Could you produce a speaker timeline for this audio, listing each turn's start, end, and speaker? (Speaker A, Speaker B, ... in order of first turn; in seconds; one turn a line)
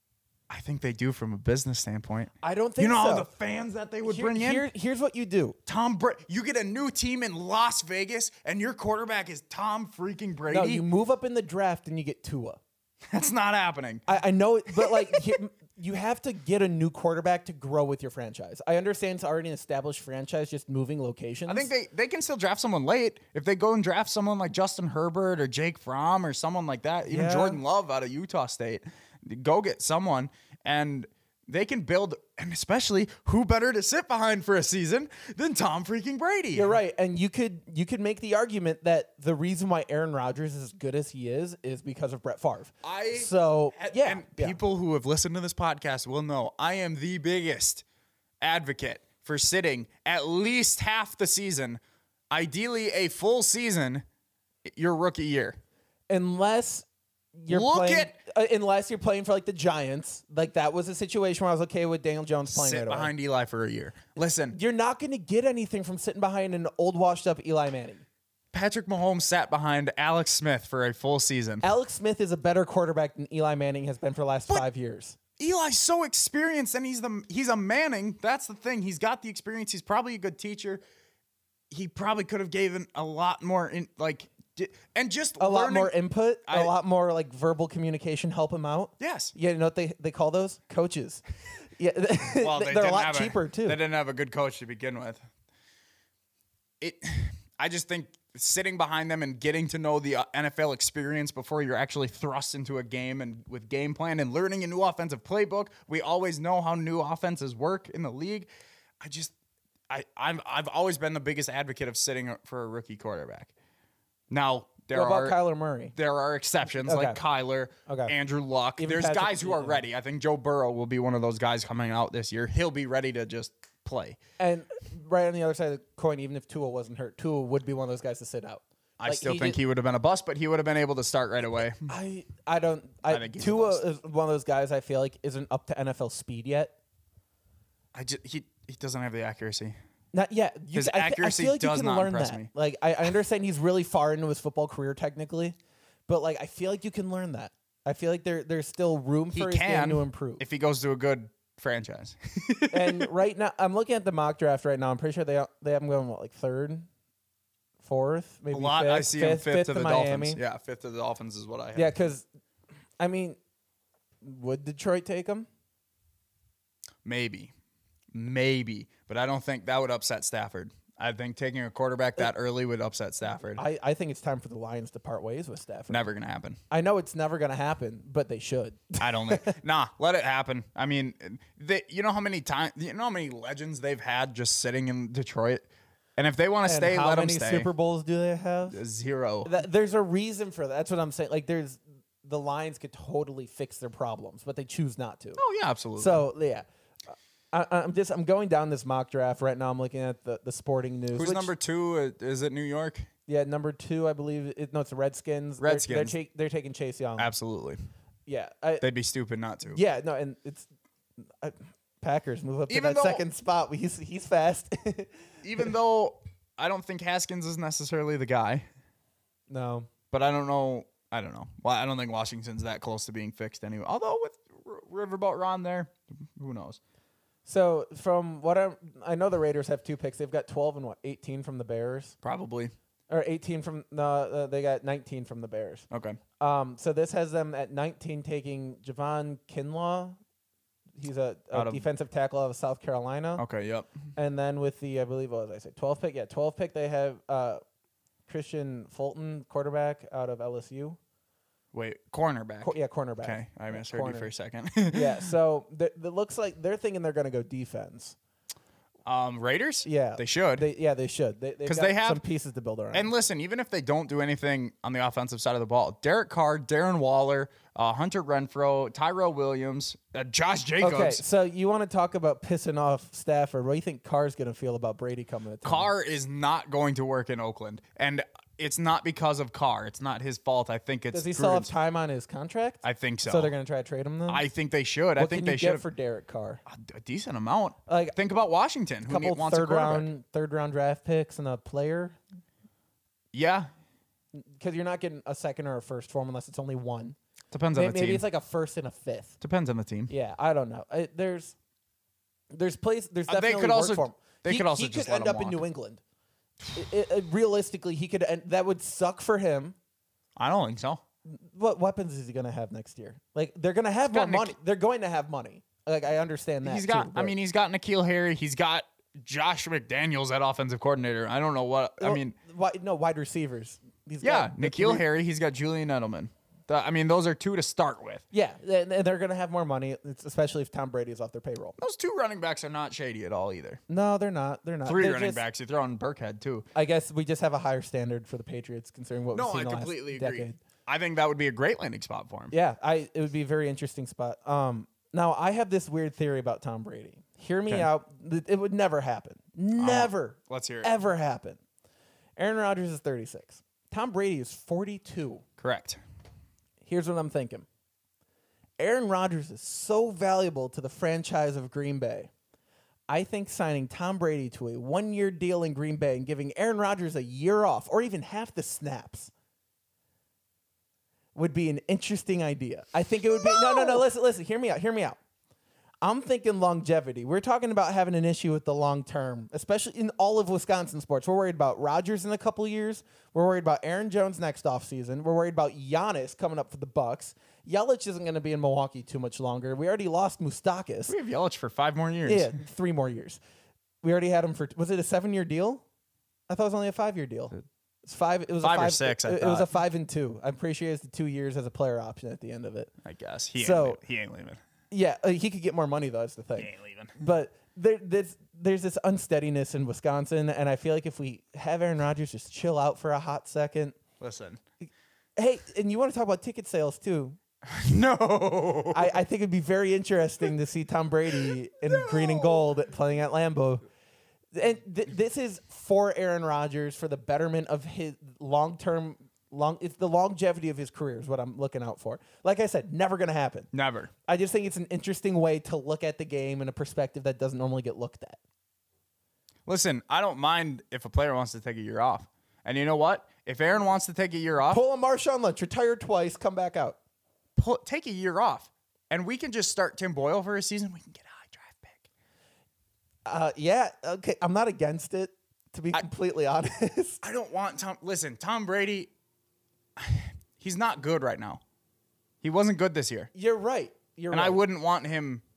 Speaker A: 0.5-4.7
Speaker B: 2.4-3.3
Speaker B: 4.0-5.6
Speaker A: 5.7-10.8
Speaker B: 10.5-12.6
Speaker A: 13.1-14.1
Speaker B: 14.1-21.7
Speaker A: 14.8-15.1
Speaker A: 21.5-36.8
Speaker B: 27.1-27.6
Speaker B: 36.5-44.6
Speaker A: 42.8-47.8
Speaker A: 48.4-51.8
Speaker A: 52.3-54.0
Speaker A: 54.6-55.6
Speaker B: 56.1-63.1
Speaker A: 57.5-58.2
Speaker A: 62.5-64.6
Speaker B: 64.5-68.0
Speaker A: 68.5-71.7
Speaker B: 71.6-75.2
Speaker A: 75.4-80.8
Speaker A: 81.7-85.9
Speaker B: 85.4-91.2
Speaker A: 86.5-86.7
Speaker A: 89.0-89.3
Speaker B: 91.7-93.8
Speaker A: 92.4-95.2
Speaker A: 96.8-108.5
Speaker A: 109.0-109.3
Speaker A: 109.9-113.5
Speaker A: 114.3-115.4
Speaker B: 114.9-115.9
Speaker A: 115.9-124.2
Speaker B: 116.8-117.2
Speaker B: 117.8-118.1
Speaker B: 118.8-119.8
Speaker B: 124.4-129.6
Speaker A: 129.0-131.8
Speaker B: 131.9-136.7
Speaker A: 133.1-133.8
Speaker A: 137.9-139.8
Speaker B: 140.1-145.6
Speaker A: 140.7-142.5
Speaker B: 146.1-150.4
Speaker A: 149.3-153.1
Speaker B: 152.7-156.9
Speaker B: 157.8-160.4
Speaker A: 158.5-161.9
Speaker B: 161.7-162.2
Speaker B: 163.0-163.4
Speaker B: 164.2-165.5
Speaker A: 167.0-167.5
Speaker A: 168.1-173.6
Speaker B: 173.6-176.0
Speaker A: 175.9-176.6
Speaker B: 176.7-179.5
Speaker A: 179.0-185.7
Speaker A: 186.2-187.7
Speaker B: 186.7-188.8
Speaker A: 188.7-189.5
Speaker B: 189.4-195.4
Speaker A: 195.4-196.2
Speaker B: 196.0-196.7
Speaker B: 197.5-201.5
Speaker A: 201.1-203.1
Speaker B: 203.3-207.3
Speaker A: 205.6-206.1
Speaker A: 207.2-207.8
Speaker B: 208.3-208.8
Speaker A: 208.8-209.8
Speaker B: 209.7-210.7
Speaker B: 211.2-215.6
Speaker A: 212.7-213.2
Speaker A: 215.4-218.7
Speaker B: 219.5-219.9
Speaker A: 220.1-226.8
Speaker B: 227.4-232.1
Speaker A: 232.2-232.7
Speaker B: 233.1-235.8
Speaker A: 235.9-236.2
Speaker B: 236.4-240.2
Speaker B: 241.0-243.4
Speaker A: 241.5-241.8
Speaker A: 243.4-243.9
Speaker B: 244.2-247.6
Speaker B: 248.3-251.0
Speaker A: 251.7-255.3
Speaker B: 252.6-254.3
Speaker B: 254.9-258.1
Speaker A: 259.1-260.7
Speaker B: 259.8-263.1
Speaker A: 261.6-262.2
Speaker A: 262.9-271.2
Speaker B: 270.8-275.9
Speaker A: 275.6-281.7
Speaker B: 281.1-284.4
Speaker A: 282.8-283.5
Speaker A: 284.3-285.8
Speaker B: 285.1-286.6
Speaker A: 286.6-290.1
Speaker B: 287.9-288.2
Speaker B: 289.1-292.2
Speaker A: 293.3-293.7
Speaker B: 294.3-297.1
Speaker A: 297.5-298.2
Speaker B: 297.7-299.3
Speaker A: 299.4-300.1
Speaker B: 300.1-301.5
Speaker B: 302.5-306.0
Speaker A: 303.3-305.6
Speaker B: 306.7-309.8
Speaker A: 310.4-311.0
Speaker B: 311.2-317.3
Speaker A: 314.1-314.5
Speaker A: 316.6-322.3
Speaker B: 322.0-325.0
Speaker A: 324.2-328.2
Speaker B: 328.3-331.8
Speaker A: 331.8-333.8
Speaker B: 333.9-335.4
Speaker A: 334.8-336.7
Speaker B: 336.7-340.6
Speaker A: 339.3-342.5
Speaker B: 342.5-351.6
Speaker A: 349.8-350.9
Speaker B: 352.4-355.4
Speaker A: 355.6-356.0
Speaker B: 356.8-357.6
Speaker B: 358.8-362.3
Speaker B: 363.1-369.3
Speaker B: 371.3-375.2
Speaker B: 376.0-391.1
Speaker A: 391.1-392.5
Speaker B: 392.2-393.4
Speaker B: 394.0-395.8
Speaker B: 396.5-402.9
Speaker A: 398.6-399.7
Speaker A: 403.0-404.6
Speaker B: 403.6-404.0
Speaker B: 404.9-414.0
Speaker A: 406.6-407.1
Speaker A: 414.2-414.6
Speaker B: 414.8-417.4
Speaker A: 417.6-419.1
Speaker B: 418.9-423.8
Speaker A: 421.9-422.6
Speaker B: 424.5-433.7
Speaker A: 433.7-434.1
Speaker B: 434.3-438.4
Speaker A: 439.7-444.8
Speaker B: 444.7-447.0
Speaker A: 447.6-452.1
Speaker B: 453.2-457.2
Speaker A: 457.2-459.1
Speaker A: 460.0-461.6
Speaker A: 462.4-463.3
Speaker B: 463.3-464.6
Speaker A: 464.3-465.4